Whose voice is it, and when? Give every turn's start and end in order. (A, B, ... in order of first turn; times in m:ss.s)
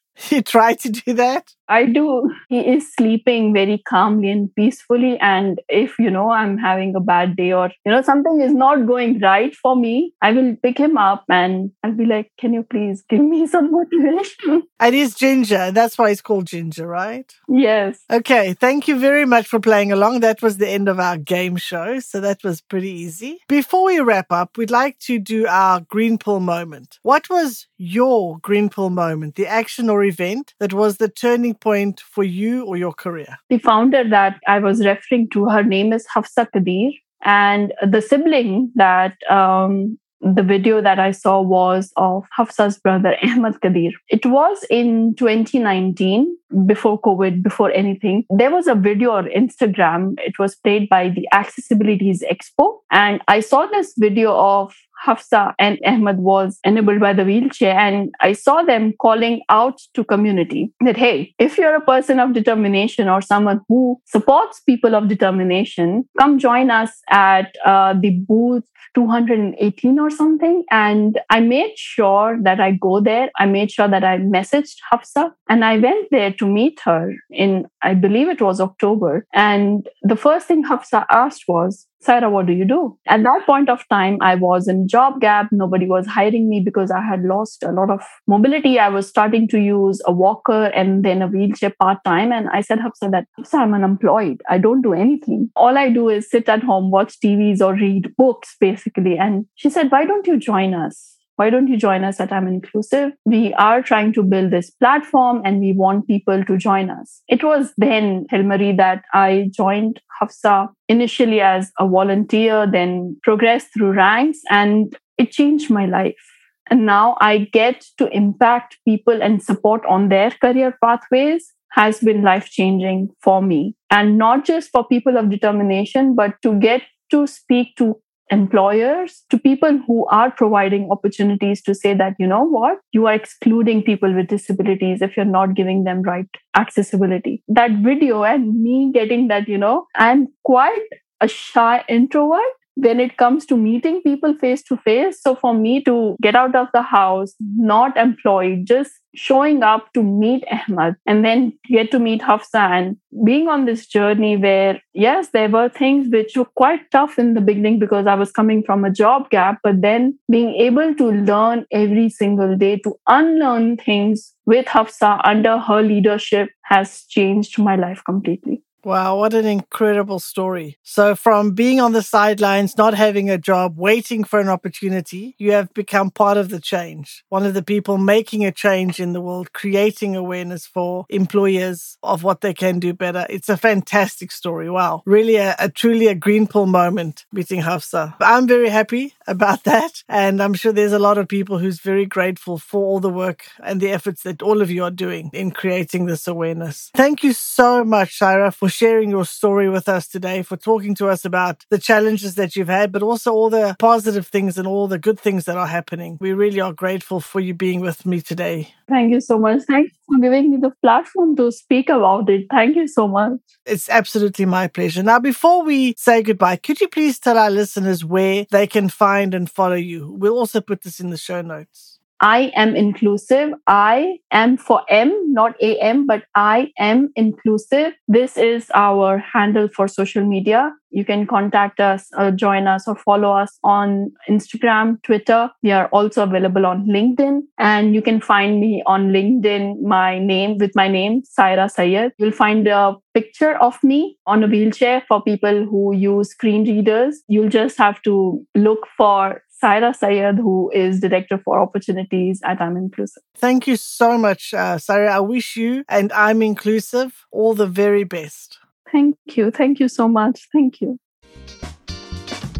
0:00.2-0:01.5 A
0:01.7-0:14.6 B
0:14.8-0:17.3 A
0:17.5-0:18.0 B
0:18.1-0:33.4 A
0:33.5-2:48.6 B
2:48.8-3:28.7 A
3:28.9-3:33.4 B
3:33.6-3:42.0 A
3:42.2-4:13.2 B
4:13.4-4:18.6 A
4:18.9-4:21.0 B